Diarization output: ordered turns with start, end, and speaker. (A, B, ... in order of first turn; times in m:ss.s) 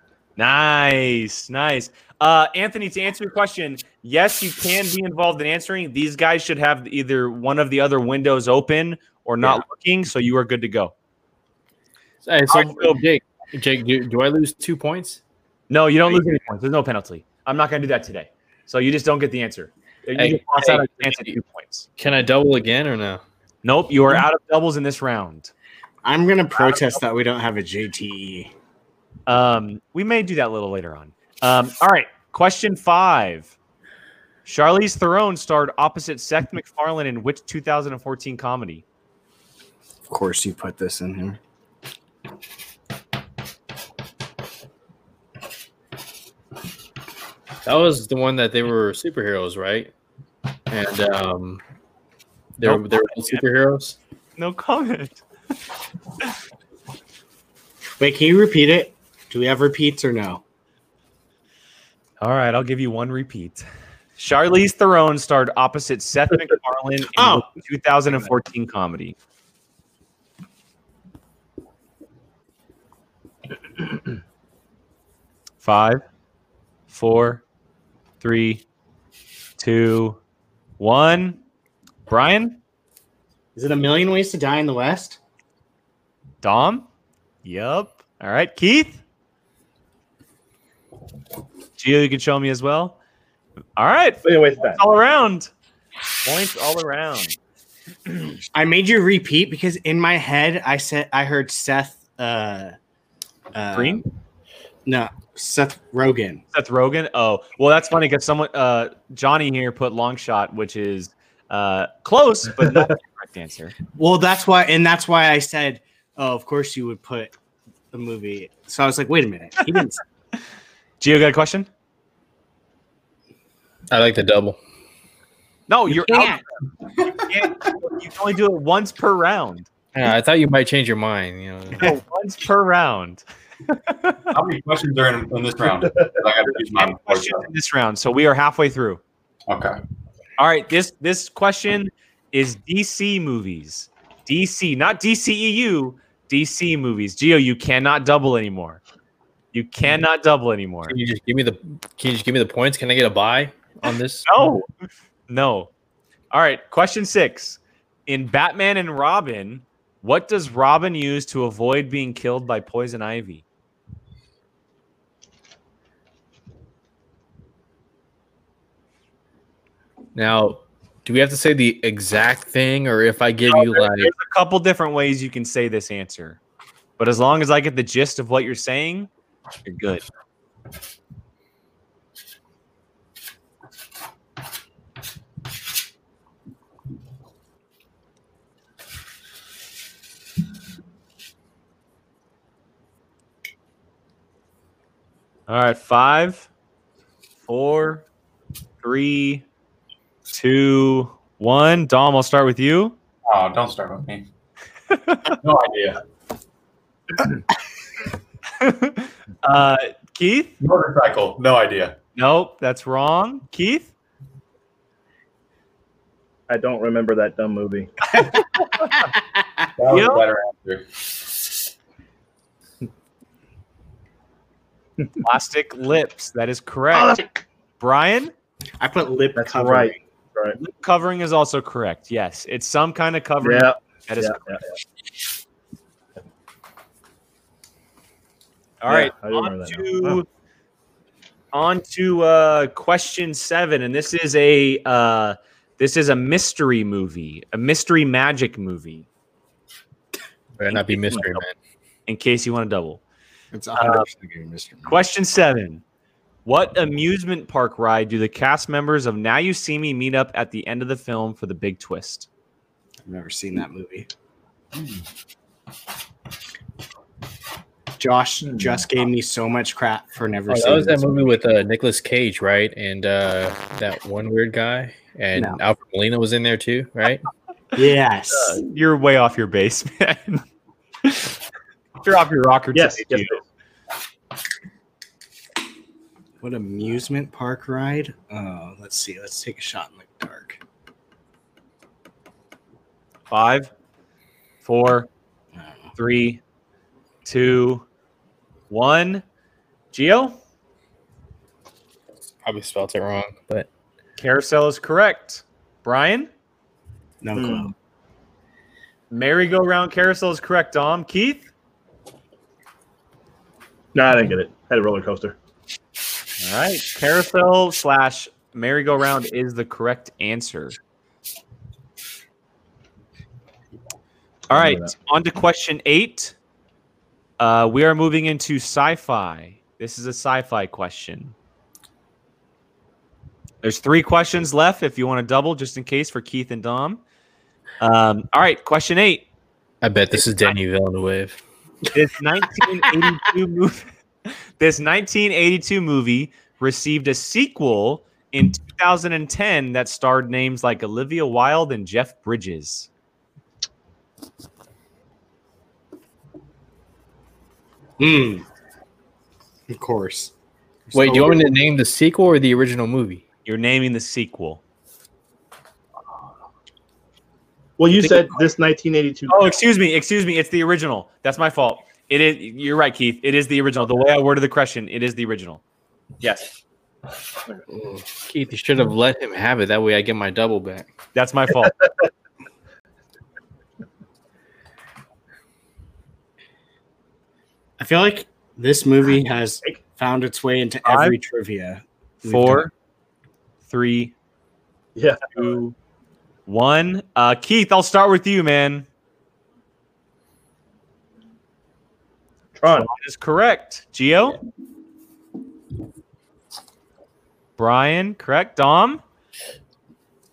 0:00.4-0:10.9 A
0:12.2-0:15.2 B
0:12.5-0:13.0 A
0:15.7-0:21.9 A
0:20.2-0:21.4 B
0:22.0-0:23.2 B
0:23.6-0:25.5 A
0:26.0-0:28.5 C
0:26.6-0:26.8 A
0:29.3-0:33.5 A
0:34.4-0:38.8 A
0:40.1-0:41.4 C
0:47.6-0:49.9 B
0:50.7-0:51.6 B
0:52.6-0:54.0 B
0:52.6-0:53.4 A
0:54.4-0:55.2 A
0:58.0-1:00.4 C
1:02.2-1:03.7 A
1:04.2-1:09.1 A
1:07.2-1:07.5 C
1:15.6-1:16.0 A
1:16.9-1:17.4 A
1:18.2-1:18.6 A
1:19.6-1:20.2 A
1:20.8-1:21.4 A
1:22.1-1:22.6 A
1:23.5-1:25.2 C
1:26.4-1:26.8 A
1:27.4-1:29.0 A
1:31.8-1:33.0 A
1:33.8-1:35.5 A
1:34.2-1:34.8 D
1:36.2-1:37.4 A
1:38.5-1:42.8 C
1:43.5-1:44.0 C
1:43.7-1:44.0 A
1:44.8-1:46.4 C
1:46.5-1:53.8 A
1:53.9-1:57.3 C
1:57.9-2:00.0 C
2:01.0-2:01.7 A
2:03.9-2:04.6 B
2:05.7-2:06.4 A
2:05.9-2:06.4 C
2:07.3-2:09.7 A
2:09.9-2:11.9 B
2:11.8-2:14.2 A
2:14.3-2:17.4 E
2:16.7-2:19.0 A
2:19.5-2:19.8 E
2:20.4-2:28.8 A
2:29.5-2:31.0 A
2:30.8-2:34.5 B
2:34.2-2:34.7 A
2:35.3-2:35.7 A
2:36.3-2:43.4 A
2:50.1-2:54.1 B
2:53.5-2:56.4 A
2:57.0-2:59.1 A
2:59.6-3:00.0 A
3:15.5-3:16.5 A
3:17.5-3:18.0 A
3:18.8-3:19.4 A
3:20.3-3:23.0 A
3:23.3-3:24.2 E
3:24.9-3:25.4 A
3:25.2-3:26.0 E
3:28.6-3:30.5 A
3:30.6-3:32.0 E
3:32.2-3:33.9 A
3:36.5-3:37.9 D
3:38.9-3:39.2 C
3:39.8-3:40.8 E
3:39.9-3:40.2 A
3:45.2-3:47.2 A
3:46.9-3:47.3 D
3:47.8-3:48.3 A
3:48.8-3:50.0 C
3:49.4-3:50.6 D
3:50.5-3:54.6 A
3:53.4-3:54.6 D
3:58.8-4:00.2 A
3:58.8-4:00.2 D
4:01.5-4:09.0 A
4:10.6-4:11.5 B
4:10.7-4:11.2 C
4:12.1-4:13.0 A
4:13.5-4:15.0 C
4:13.8-4:14.1 A
4:14.8-4:15.8 A
4:16.4-4:22.3 A
4:23.0-4:24.1 C
4:28.0-4:31.3 C
4:30.5-4:37.2 B
4:35.3-4:35.6 C
4:37.7-4:38.6 C
4:38.3-4:40.4 A
4:41.0-4:41.4 A
4:42.0-4:43.4 A
4:42.7-4:43.4 D
4:46.4-4:50.6 C
4:53.3-4:53.7 A
4:54.6-4:55.1 A
4:55.5-4:55.9 C
4:56.0-4:56.4 A
4:57.2-4:57.8 A
4:58.7-4:59.2 A
4:59.9-5:00.4 A
5:02.4-5:03.7 B
5:04.2-5:06.3 A
5:07.2-5:07.7 C
5:07.3-5:07.7 D
5:09.1-5:11.5 A
5:13.9-5:15.4 D
5:16.4-5:20.8 A
5:24.5-5:26.3 A
5:24.5-5:24.9 D
5:27.4-5:31.3 A
5:33.6-5:37.0 A
5:37.8-5:39.2 A
5:39.8-5:41.4 B
5:41.9-5:52.9 A
5:58.0-5:58.4 C
5:59.7-6:00.3 C
6:00.9-6:01.4 C
6:00.9-6:03.2 B
6:03.4-6:04.6 A
6:07.8-6:09.4 D
6:07.9-6:08.3 B
6:09.3-6:15.6 A
6:16.2-6:16.5 A
6:17.7-6:20.9 B
6:21.1-6:21.8 A
6:27.8-6:32.7 C
6:30.8-6:31.2 A
6:32.2-6:32.7 A
6:33.7-6:34.1 A
6:35.0-6:35.3 D
6:35.3-6:35.7 A
6:36.5-6:38.8 A
6:42.6-6:42.9 D
6:42.6-6:44.4 A
6:47.6-6:49.0 A